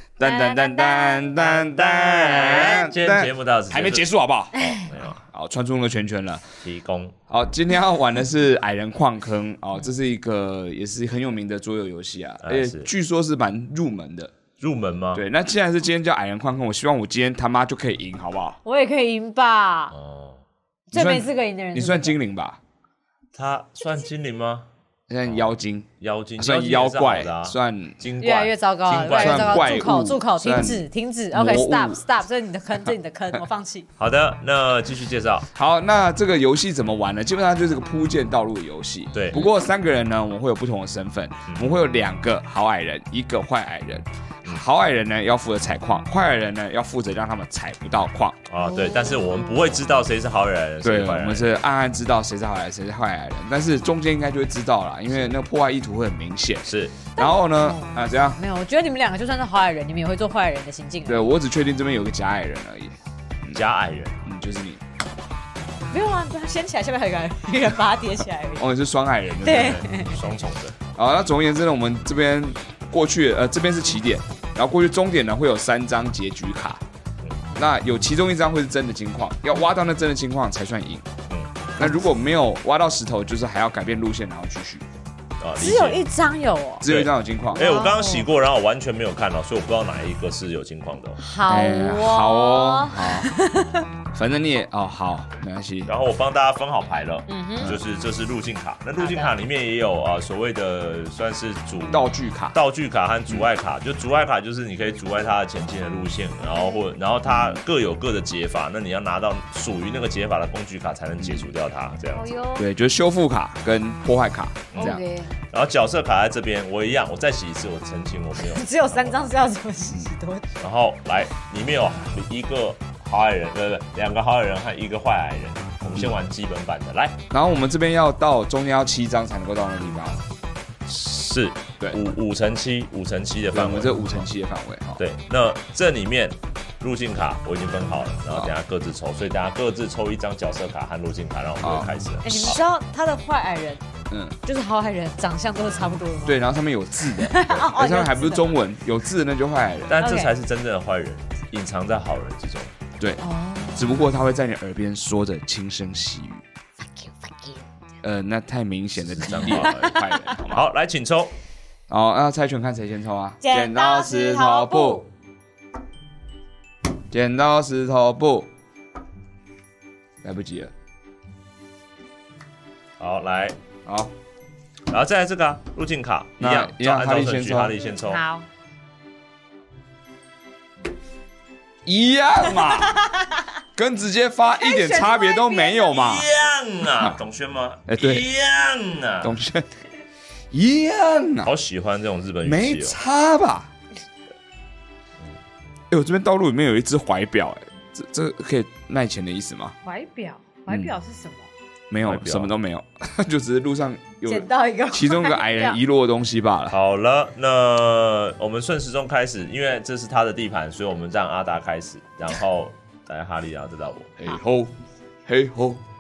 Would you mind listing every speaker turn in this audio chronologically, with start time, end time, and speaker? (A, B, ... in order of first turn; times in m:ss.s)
0:00.2-0:04.6 A
0:00.2-0:01.4 B
0:01.4-0:05.2 C
0:04.5-0:04.9 B
0:05.2-0:06.4 A
0:06.6-0:07.2 C
0:07.3-0:14.3 A
0:12.4-0:12.9 C
0:14.6-0:15.2 C
0:15.1-0:18.6 A
0:18.6-0:19.9 B
0:19.9-0:20.4 C
0:20.9-0:22.1 B
0:20.9-0:22.6 A
0:23.3-0:24.7 C
0:25.1-0:28.0 A
0:26.0-0:29.8 C
0:28.2-0:33.9 B
0:29.1-0:32.0 A
0:34.0-0:35.5 C
0:35.5-0:48.4 A
0:39.1-0:39.5 C
0:48.5-0:51.5 C
0:48.6-0:49.7 B
0:50.8-0:58.4 A
0:56.7-0:57.0 C
0:57.2-1:01.3 B
1:01.1-1:03.6 A
1:03.5-1:04.2 C
1:04.2-1:04.8 A
1:05.9-1:08.7 B
1:08.6-1:09.8 A
1:09.4-1:10.2 B
1:09.4-1:10.8 C
1:11.0-1:16.8 A
1:17.5-1:21.1 A
1:21.3-1:21.9 C
1:21.8-1:24.8 A
1:25.4-1:26.0 C
1:25.6-1:26.8 B
1:26.8-1:27.7 A
1:26.8-1:31.2 C
1:27.6-1:28.3 B
1:31.2-1:33.9 B
1:31.5-1:33.3 A
1:34.1-1:35.9 A
1:35.9-1:52.3 C
1:37.3-1:37.7 B
1:39.0-1:39.3 B
1:41.9-1:42.6 A
1:46.5-1:46.9 B
1:51.2-1:51.4 A
1:52.1-1:52.7 B
1:52.6-1:55.0 A
1:54.7-1:55.0 C
1:54.8-1:55.3 B
1:55.5-1:59.3 C
1:58.4-2:00.6 B
2:00.6-2:07.2 C
2:07.3-2:10.2 A
2:10.8-2:14.1 C
2:13.5-2:15.0 A
2:15.0-2:22.6 C
2:21.6-2:21.9 A
2:22.2-2:23.8 B
2:24.1-2:24.4 A
2:24.4-2:26.4 B
2:26.2-2:30.0 A
2:27.1-2:28.6 B
2:29.9-2:32.7 C
2:30.0-2:30.3 B
2:33.2-2:34.1 B
2:33.7-2:36.4 A
2:37.0-2:37.6 B
2:38.0-2:40.7 A
2:39.0-2:41.3 C
2:39.5-2:40.2 B
2:41.9-2:45.0 A
2:43.4-2:45.1 B
2:47.1-2:48.5 A
2:50.2-2:50.7 A
2:53.0-2:53.6 C
2:53.8-2:54.1 A
2:54.9-2:58.2 C
2:56.4-2:57.8 A
2:58.0-2:58.5 B
3:01.8-3:03.0 A
3:02.7-3:03.4 B
3:03.8-3:06.3 A
3:04.5-3:06.2 B
3:05.9-3:09.4 C
3:07.9-3:08.3 A
3:09.2-3:09.7 A
3:10.5-3:11.5 A
3:11.4-3:13.0 C
3:12.4-3:13.7 A
3:15.9-3:19.8 A
3:19.8-3:21.5 B
3:20.7-3:20.9 A
3:21.9-3:26.8 A
3:22.0-3:22.5 C
3:24.3-3:25.8 B
3:26.7-3:34.1 C
3:34.2-3:34.7 A
3:35.2-3:35.8 A